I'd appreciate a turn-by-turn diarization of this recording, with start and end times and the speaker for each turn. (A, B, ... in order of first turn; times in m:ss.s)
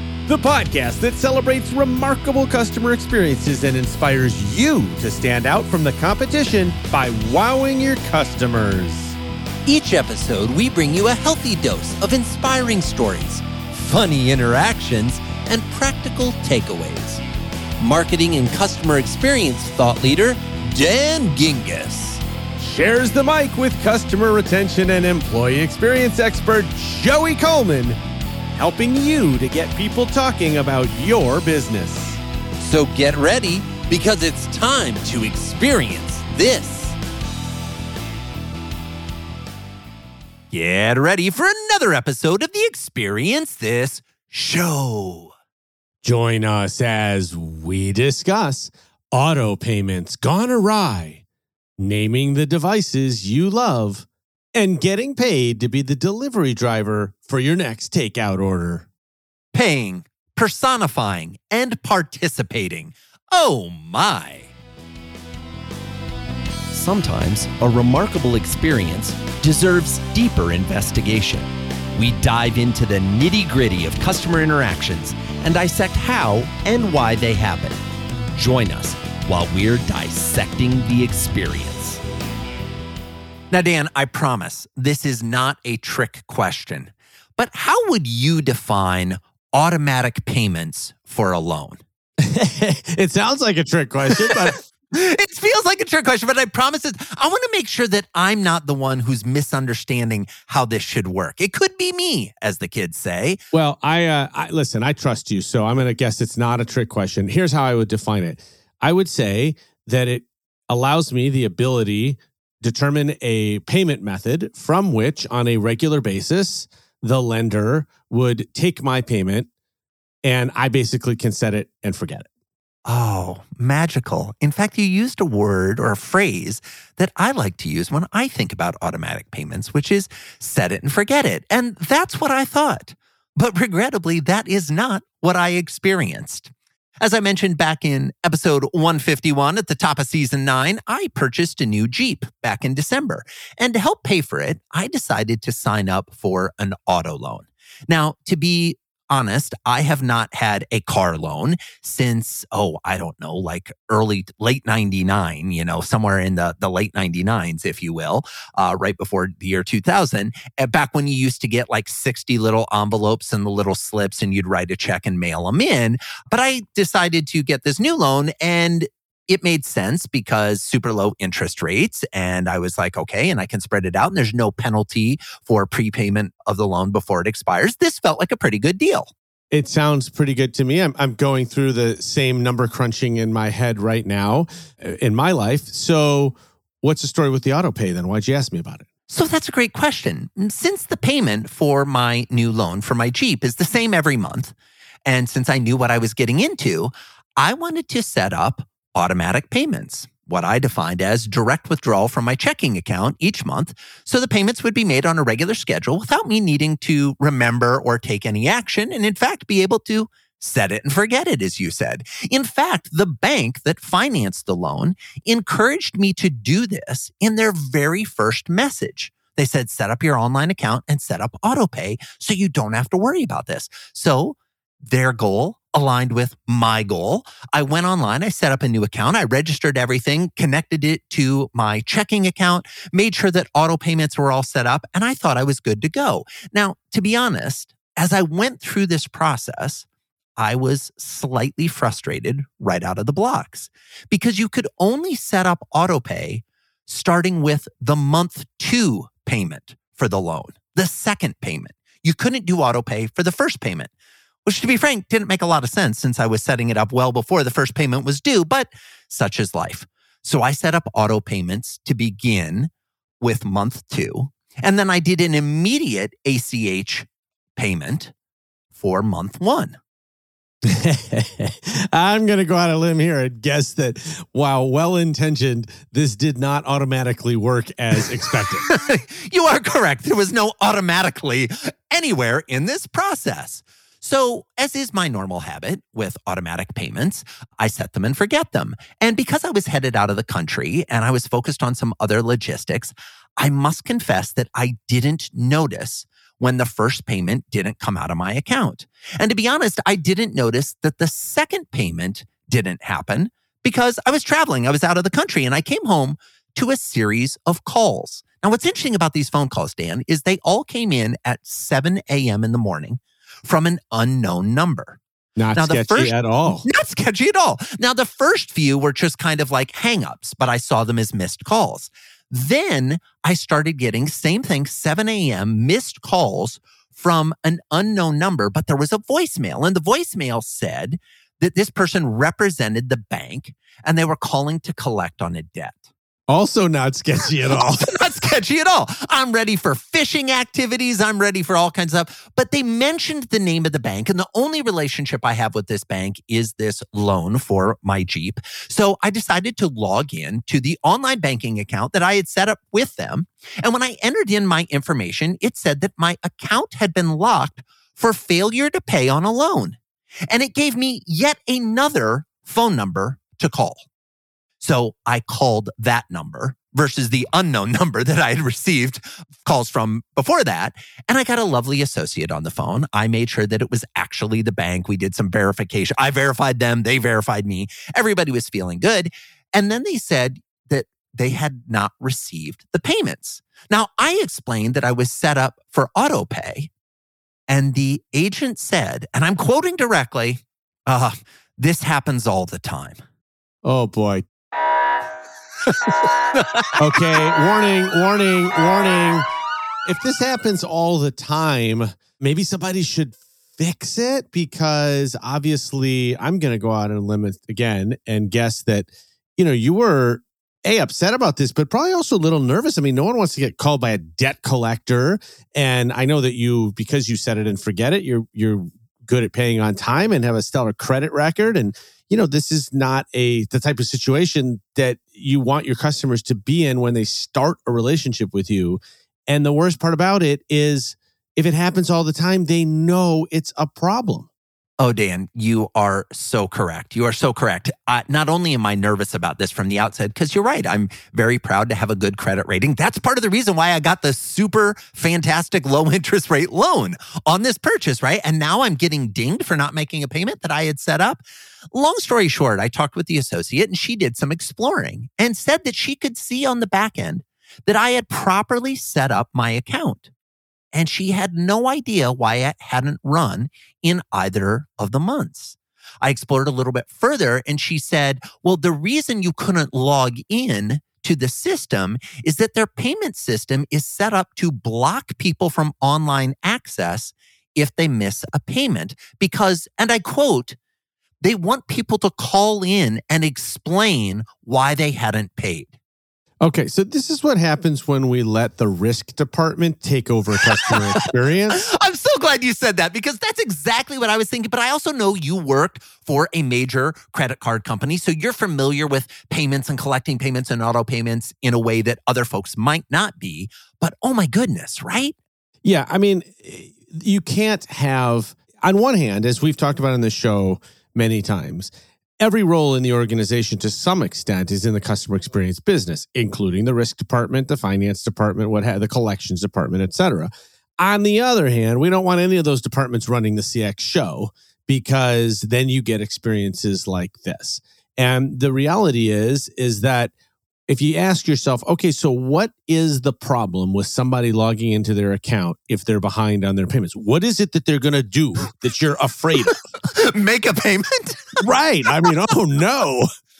0:00.3-0:09.2 A
0:09.7-0:17.2 B
0:17.8-0:22.2 B
0:22.6-0:28.0 A
0:28.6-0:32.2 A
0:32.6-0:37.0 B
0:40.5-0:45.3 B
0:46.0-0:51.2 A
0:51.8-0:58.9 A
0:59.5-1:04.5 B
1:06.7-1:17.8 B
1:18.3-1:22.0 B
1:23.5-1:31.8 B
1:32.2-1:34.6 A
1:34.2-1:43.4 B
1:43.5-1:59.5 A
2:00.2-2:02.3 A
2:02.9-2:59.1 B
2:59.5-3:08.9 A
3:09.1-3:14.5 B
3:15.1-3:59.9 B
4:00.4-4:13.9 B
4:14.4-4:28.1 B
4:28.7-4:29.8 B
4:30.6-4:38.7 A
4:38.7-5:15.0 B
5:15.4-5:16.7 A
5:15.5-5:35.8 B
5:36.3-5:37.9 A
5:37.5-5:59.8 B
6:00.3-6:03.8 B
6:04.6-6:26.7 B
6:27.5-6:33.0 B
6:33.6-6:34.2 A
6:36.3-6:36.8 B
6:36.8-6:39.3 A
6:39.9-7:14.3 A
7:14.8-7:31.2 B
7:31.7-7:40.1 B
7:40.7-8:00.6 B
8:01.2-8:05.7 B
8:06.4-8:11.7 A
8:11.5-8:25.2 B
8:25.6-8:50.1 A
8:50.7-8:59.5 A
8:59.8-9:01.4 B
9:01.4-9:03.1 A